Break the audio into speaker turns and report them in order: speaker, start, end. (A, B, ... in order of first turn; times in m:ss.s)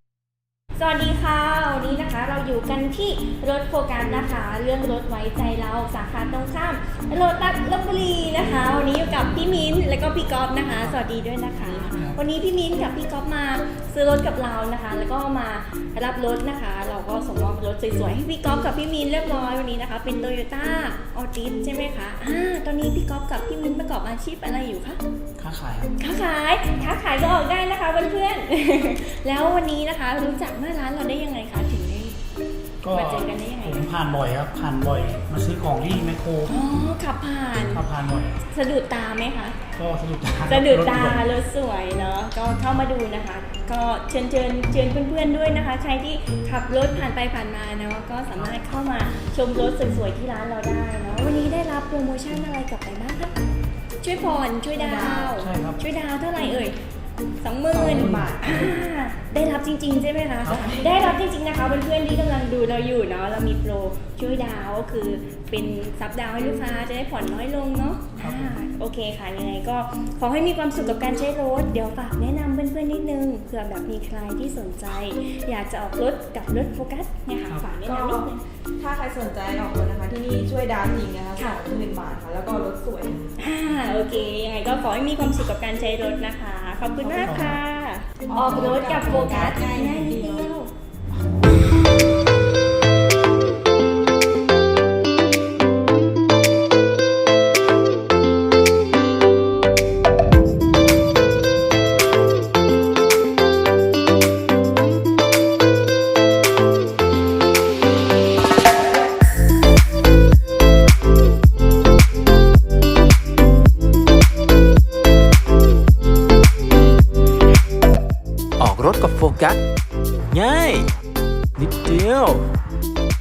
0:00.8-0:25.0 A
0:11.7-0:12.2 B
0:25.4-0:26.0 C
0:26.0-0:32.2 A
0:32.8-0:36.7 C
0:32.9-0:33.9 A
0:36.5-0:37.9 A
0:37.7-0:38.4 C
0:38.5-0:39.6 A
0:39.7-0:41.3 C
0:40.4-0:53.3 A
0:54.0-0:56.8 A
0:54.7-0:55.4 B
0:55.4-0:55.8 C
0:57.4-1:18.4 A
0:57.7-0:58.5 B
0:57.9-0:58.8 C
1:00.4-1:00.7 C
1:00.6-1:01.0 B
1:08.2-1:08.6 C
1:17.6-1:23.2 B
1:23.4-1:30.7 A
1:27.0-1:27.6 C
1:28.3-1:30.5 B
1:58.6-1:59.6 D
2:00.3-2:00.9 D
2:01.6-2:02.4 D